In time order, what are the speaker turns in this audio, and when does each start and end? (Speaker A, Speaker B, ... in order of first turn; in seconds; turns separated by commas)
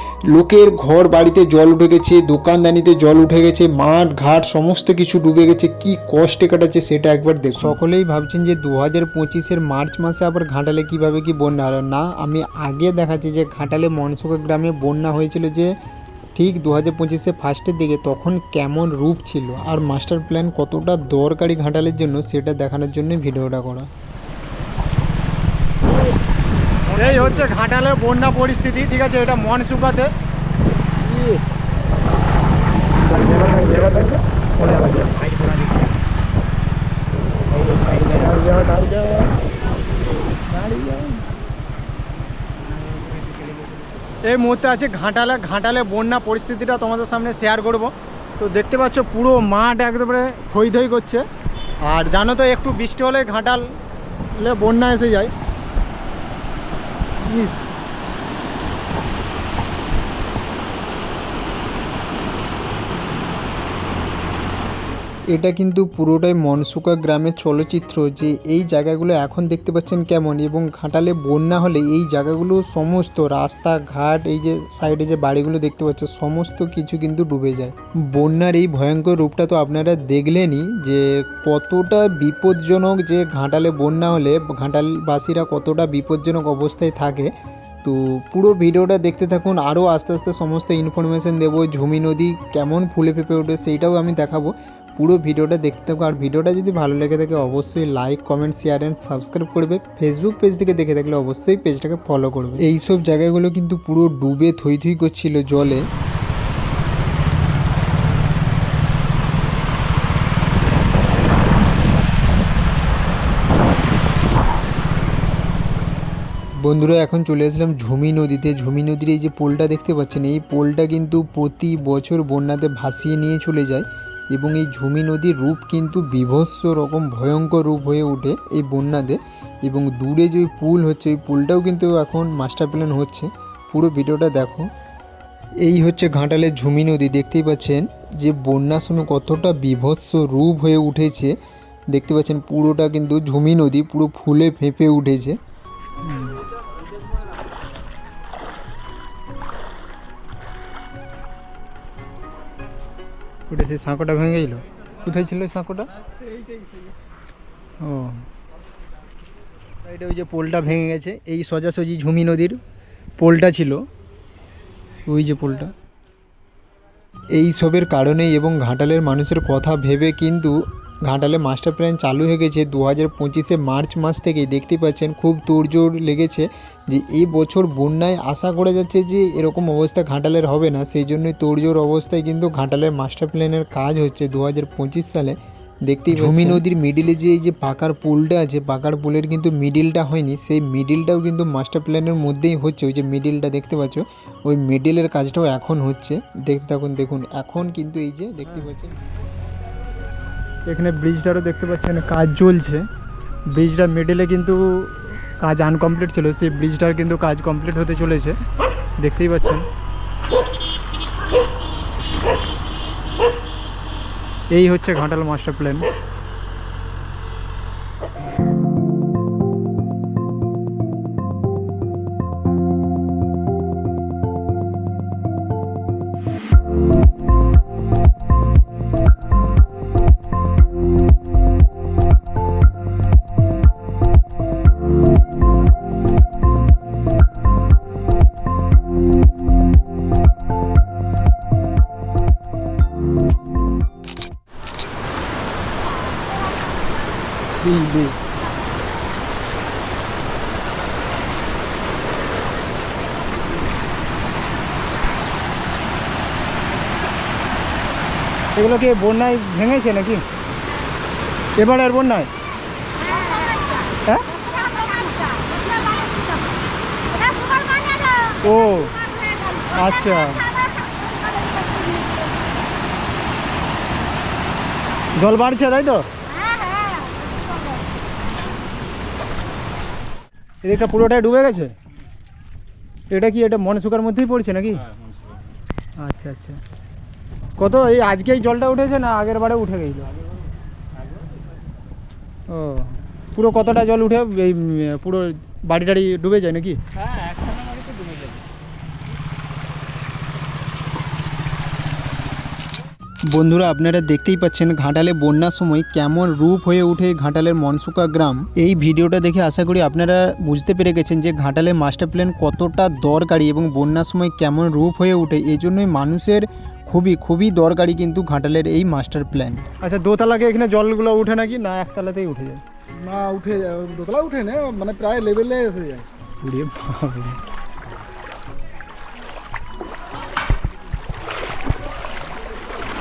Speaker A: 0.3-15.7, Speaker A: 16.4-23.9, Speaker B: 26.9-30.1, Speaker B: 31.1-31.4, Speaker B: 33.0-35.4, Speaker B: 37.7-39.4, Speaker B: 40.5-41.3, Speaker B: 42.9-43.5, Speaker B: 44.2-51.2, Speaker B: 51.8-53.7, Speaker B: 54.4-55.3, Speaker B: 57.2-57.6, Speaker A: 65.3-87.3, Speaker A: 87.8-105.8, Speaker A: 116.6-134.7, Speaker A: 135.6-141.3, Speaker A: 141.9-145.4, Speaker B: 146.1-146.4, Speaker A: 153.5-155.8, Speaker B: 157.9-158.1, Speaker A: 159.8-162.6, Speaker A: 163.2-163.8, Speaker A: 165.1-165.7, Speaker A: 167.3-199.0, Speaker B: 200.7-202.8, Speaker B: 203.5-208.4, Speaker B: 209.0-209.6, Speaker B: 214.5-215.8, Speaker B: 247.7-248.1, Speaker B: 258.5-260.2, Speaker B: 261.6-262.3, Speaker B: 264.0-264.4, Speaker B: 268.3-269.0, Speaker B: 269.7-270.5, Speaker B: 275.2-276.1, Speaker B: 280.6-281.7, Speaker B: 283.1-284.9, Speaker B: 286.0-286.6, Speaker B: 287.6-290.2, Speaker B: 292.5-296.8, Speaker C: 297.2-298.3, Speaker A: 303.3-319.6, Speaker B: 319.8-322.6, Speaker C: 322.9-326.1, Speaker B: 326.4-327.4